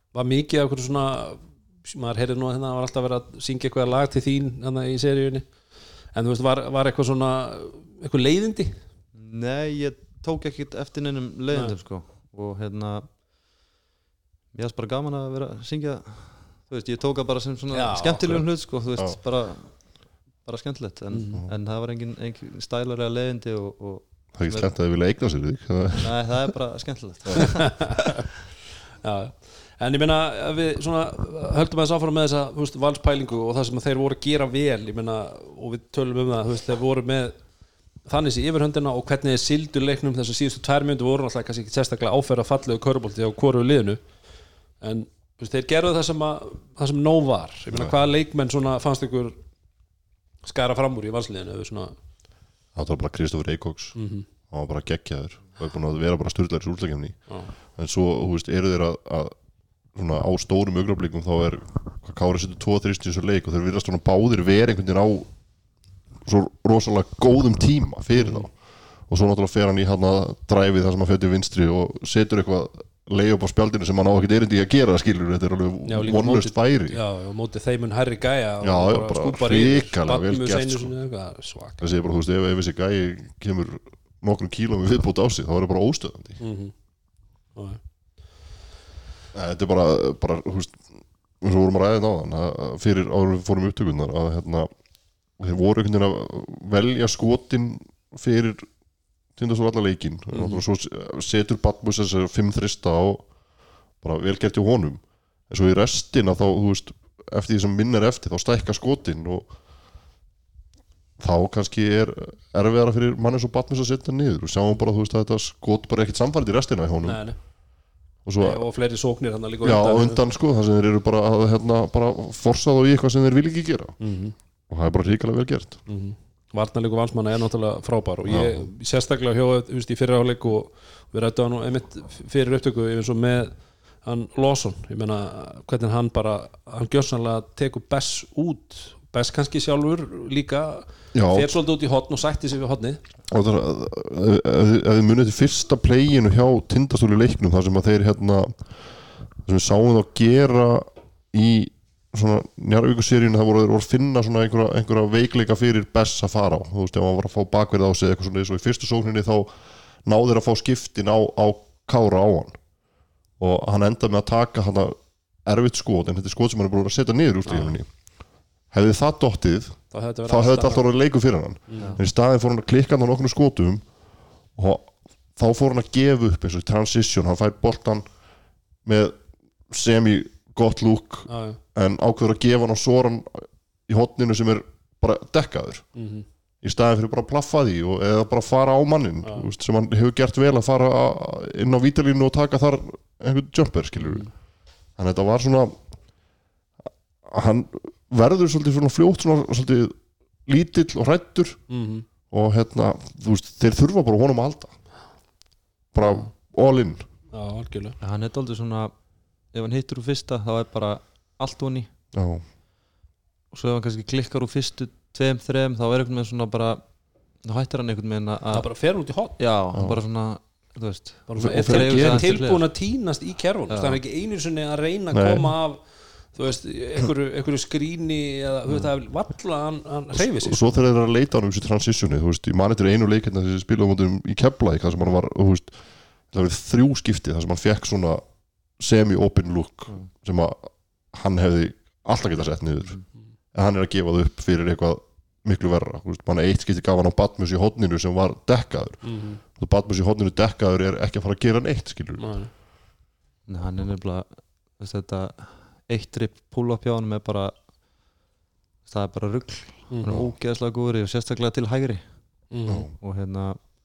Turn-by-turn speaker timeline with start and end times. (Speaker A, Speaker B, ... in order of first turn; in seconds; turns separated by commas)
Speaker A: 0.1-5.5, Speaker A: 6.1-8.8, Speaker B: 9.1-13.2, Speaker B: 14.5-24.7, Speaker A: 17.7-18.4, Speaker A: 21.1-21.4, Speaker C: 24.4-26.4, Speaker B: 26.0-28.0, Speaker A: 29.0-37.4, Speaker A: 38.0-44.0, Speaker A: 44.8-49.4, Speaker A: 50.4-52.0, Speaker C: 52.7-54.0, Speaker A: 53.9-54.3, Speaker C: 54.5-59.4, Speaker C: 59.9-65.4, Speaker C: 66.2-77.0, Speaker A: 68.1-68.5, Speaker A: 75.9-81.8, Speaker C: 78.6-80.9, Speaker C: 81.8-86.4, Speaker A: 86.4-86.7, Speaker A: 87.5-87.8, Speaker C: 89.3-94.7, Speaker C: 95.4-98.7, Speaker C: 99.3-103.3, Speaker A: 100.3-100.6, Speaker C: 104.0-109.5, Speaker C: 111.2-117.3, Speaker A: 117.0-117.4, Speaker C: 118.2-118.7, Speaker A: 118.4-120.2, Speaker C: 119.6-124.0, Speaker A: 124.0-124.3, Speaker C: 124.7-125.8, Speaker A: 125.9-143.0, Speaker C: 128.3-128.7, Speaker C: 141.1-141.5, Speaker C: 143.3-148.7, Speaker C: 149.4-159.5, Speaker C: 160.0-162.6, Speaker C: 163.4-167.9, Speaker A: 167.5-167.7, Speaker C: 168.7-173.9, Speaker A: 169.9-170.9, Speaker A: 171.7-172.0, Speaker B: 171.8-172.0, Speaker C: 174.5-178.1, Speaker C: 178.8-179.2, Speaker C: 179.7-185.9, Speaker A: 181.3-181.6, Speaker A: 185.9-186.2, Speaker C: 186.6-194.3, Speaker A: 194.0-194.3, Speaker C: 195.0-195.8, Speaker C: 197.2-201.6, Speaker A: 201.7-202.1, Speaker C: 202.3-204.8, Speaker C: 205.9-207.1, Speaker A: 207.3-207.9, Speaker B: 208.0-208.9, Speaker B: 209.5-211.9, Speaker C: 212.1-212.4, Speaker B: 213.5-216.8, Speaker B: 217.4-218.7, Speaker A: 218.5-219.4, Speaker B: 219.4-222.7, Speaker A: 221.3-230.6, Speaker C: 221.4-222.3, Speaker B: 223.7-224.0, Speaker C: 225.1-225.5, Speaker C: 230.1-238.2, Speaker C: 238.8-252.4, Speaker A: 249.0-249.4, Speaker A: 252.2-252.5, Speaker B: 253.5-257.5, Speaker B: 258.9-262.0, Speaker A: 259.9-260.2, Speaker A: 262.5-262.9, Speaker C: 262.7-262.9, Speaker B: 263.0-263.6